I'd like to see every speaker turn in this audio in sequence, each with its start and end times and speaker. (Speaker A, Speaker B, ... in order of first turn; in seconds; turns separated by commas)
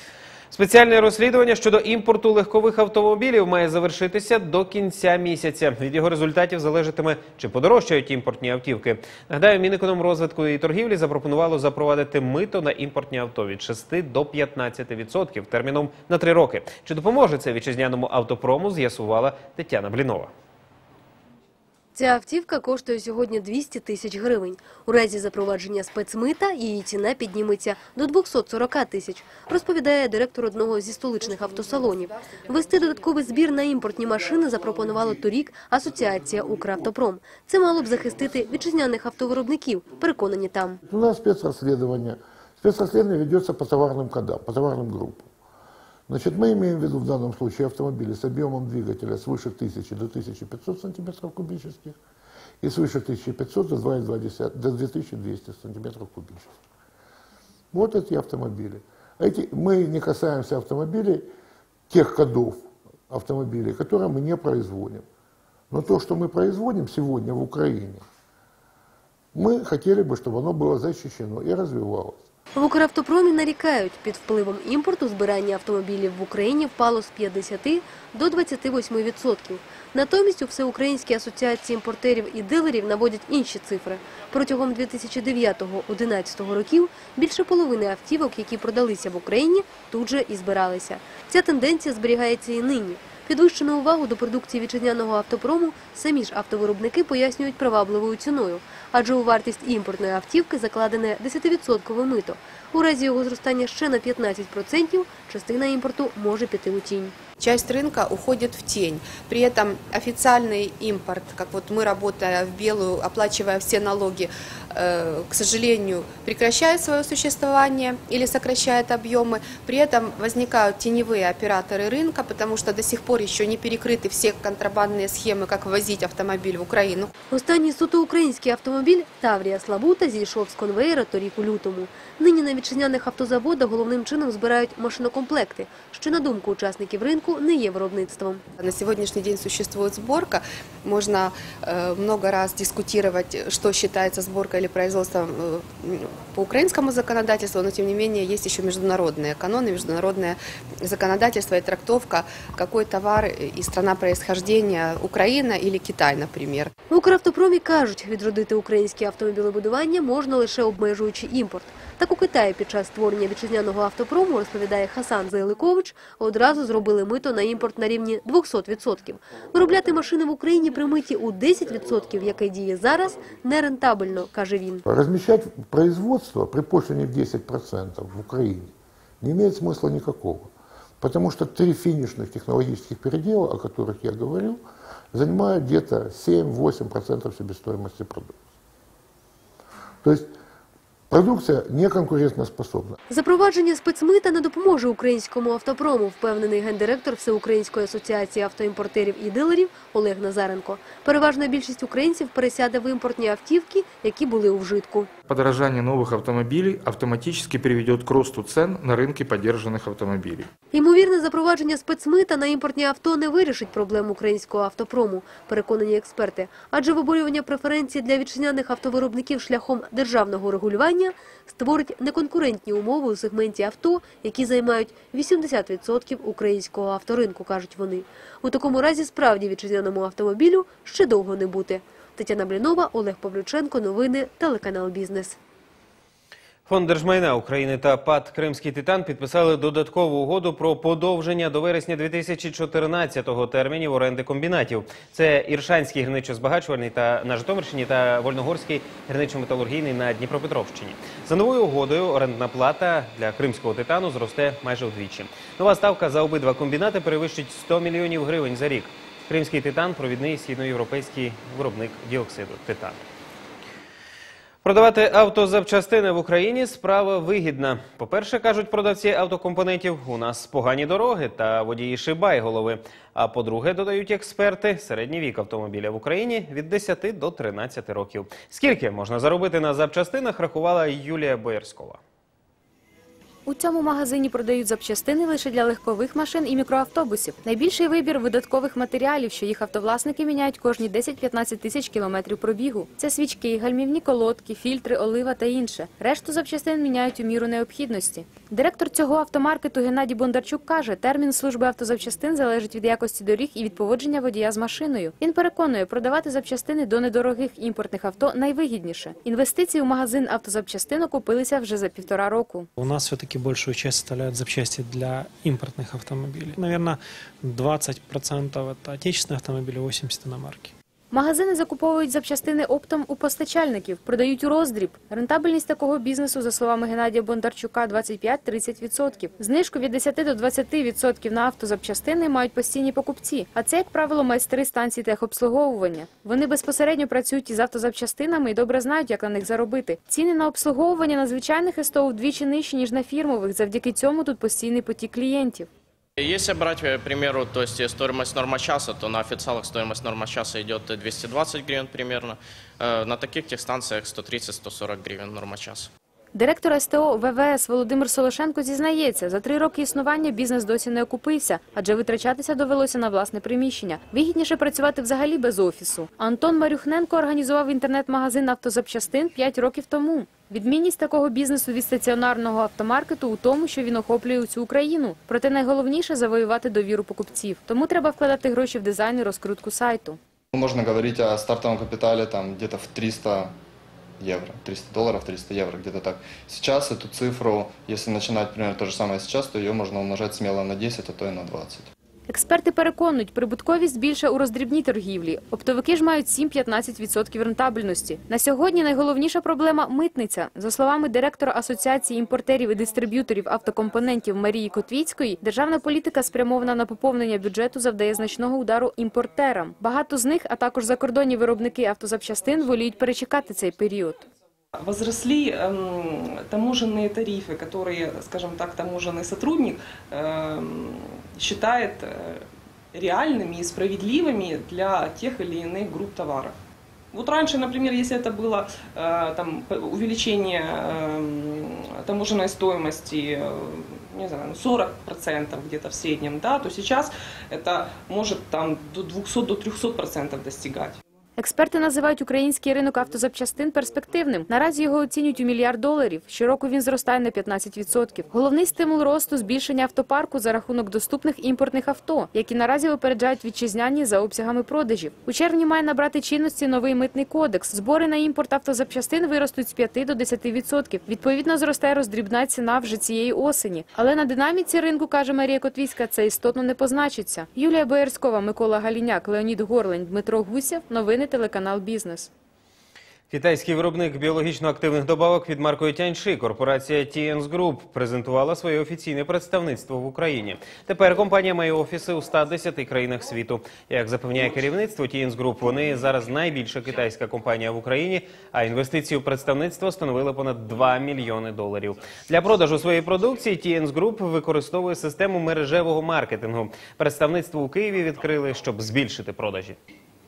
Speaker A: 0.5-20.3, Speaker B: 21.9-40.8, Speaker C: 40.9-45.3, Speaker C: 46.1-52.0, Speaker C: 52.6-56.6, Speaker C: 57.7-61.3, Speaker C: 61.9-65.0, Speaker C: 65.7-68.0, Speaker C: 69.3-72.2, Speaker B: 72.5-107.1, Speaker D: 107.4-127.1, Speaker B: 127.3-138.4, Speaker D: 138.6-156.7, Speaker B: 156.9-174.8, Speaker C: 174.9-184.6, Speaker C: 185.1-188.4, Speaker C: 190.0-190.3, Speaker C: 191.1-193.0, Speaker B: 193.1-205.1, Speaker E: 205.3-210.5, Speaker B: 210.7-235.4, Speaker A: 236.7-263.0, Speaker A: 264.6-282.0, Speaker F: 283.5-312.7, Speaker G: 312.8-320.7, Speaker F: 321.1-345.7, Speaker H: 346.2-355.9, Speaker F: 356.3-380.2, Speaker I: 380.5-383.5, Speaker I: 384.2-391.9, Speaker F: 392.3-414.2, Speaker J: 414.8-426.6, Speaker J: 427.1-441.0, Speaker F: 441.4-472.3, Speaker A: 473.3-499.8